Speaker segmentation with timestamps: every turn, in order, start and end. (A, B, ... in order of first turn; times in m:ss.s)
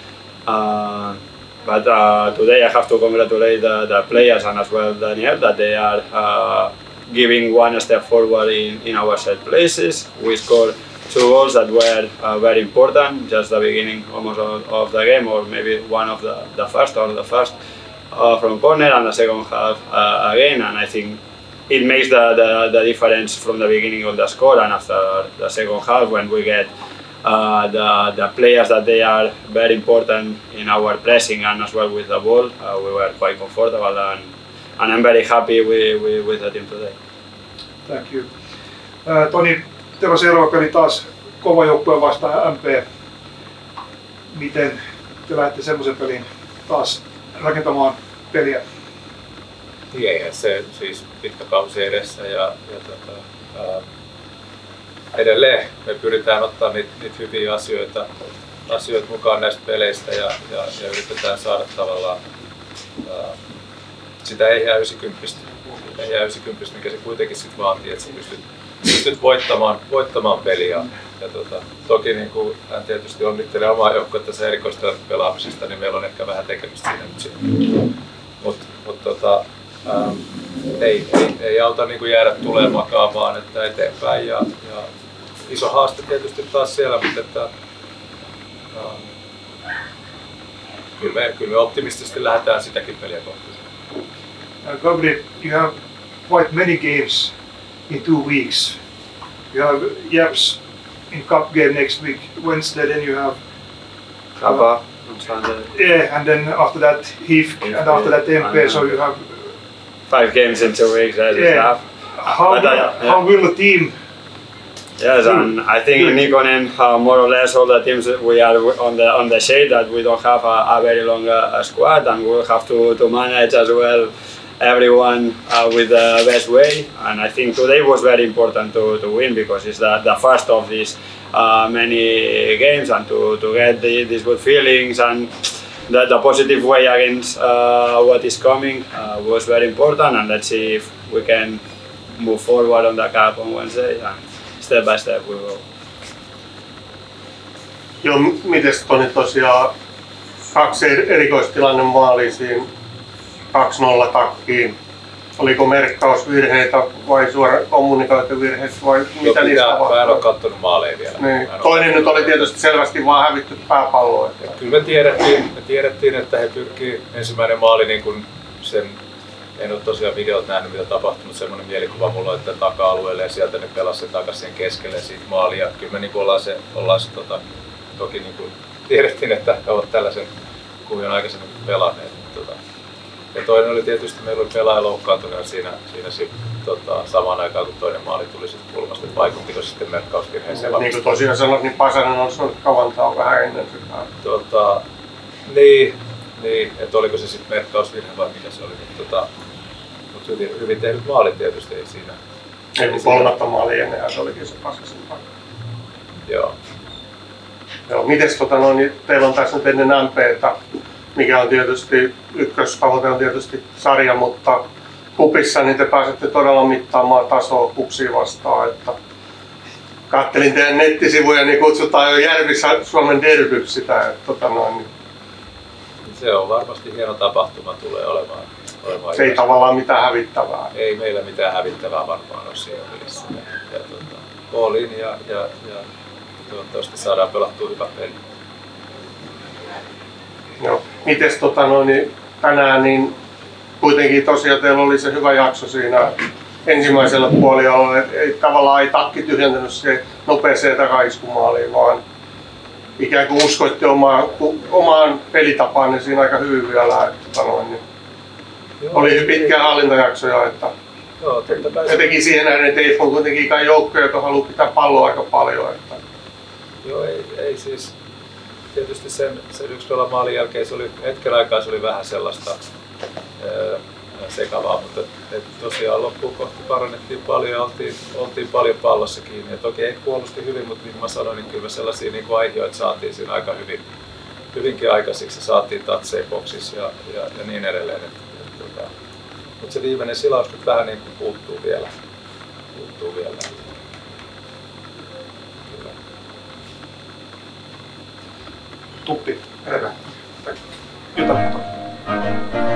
0:00.5-0:17.6 A
0:18.1-0:26.7 A
0:27.2-0:37.0 A
0:37.9-0:38.3 B
0:39.0-0:42.9 B
0:44.3-0:48.6 B
0:49.9-0:53.8 C
0:55.1-0:58.1 C
0:58.7-1:02.2 C
1:03.0-1:03.4 C
1:04.2-1:17.5 C
1:18.4-1:20.2 C
1:20.8-1:24.9 C
1:25.5-1:27.5 C
1:28.7-1:29.1 C
1:31.0-1:33.6 C
1:34.6-1:35.7 B
1:36.3-1:37.3 B
1:37.9-1:38.8 B
1:39.5-1:43.4 B
1:44.4-1:45.7 A
1:44.4-1:44.7 B
1:45.7-1:49.5 B
1:47.6-1:49.0 A
1:50.1-1:51.8 A
1:51.3-1:54.0 B
1:52.4-1:53.2 A
1:55.0-2:21.6 A
2:22.1-2:25.6 A
2:28.0-2:29.7 D
2:30.5-2:32.7 D
2:33.5-2:34.8 D
2:35.4-2:40.2 D
2:39.2-2:42.4 C
2:41.2-2:44.4 D
2:44.4-2:49.0 C
2:49.6-2:57.4 C
2:58.0-3:00.3 C
3:00.8-3:02.6 C
3:03.3-3:10.9 C
3:10.5-3:14.1 D
3:14.2-3:14.8 C
3:15.5-3:19.3 C
3:20.1-3:22.2 C
3:22.8-3:25.2 D
3:22.9-3:23.3 C
3:26.3-3:26.6 C
3:27.9-3:30.6 D
3:31.1-3:34.6 D
3:35.2-3:39.0 D
3:40.1-3:44.9 D
3:46.0-3:49.6 C
3:49.1-3:50.7 D
3:50.7-3:55.9 C
3:56.5-3:58.2 C
4:00.6-4:03.2 D
4:03.8-4:12.0 D
4:13.0-4:17.8 D
4:18.8-4:19.9 C
4:18.9-4:20.7 D
4:21.2-4:22.3 C
4:21.8-4:26.0 D
4:26.8-4:28.0 C
4:28.7-4:32.6 C
4:33.4-4:43.8 C
4:44.5-4:48.9 C
4:49.6-4:51.9 C
4:52.7-4:53.7 C
4:55.7-4:56.0 C
4:59.0-5:00.5 B
5:01.1-5:01.6 B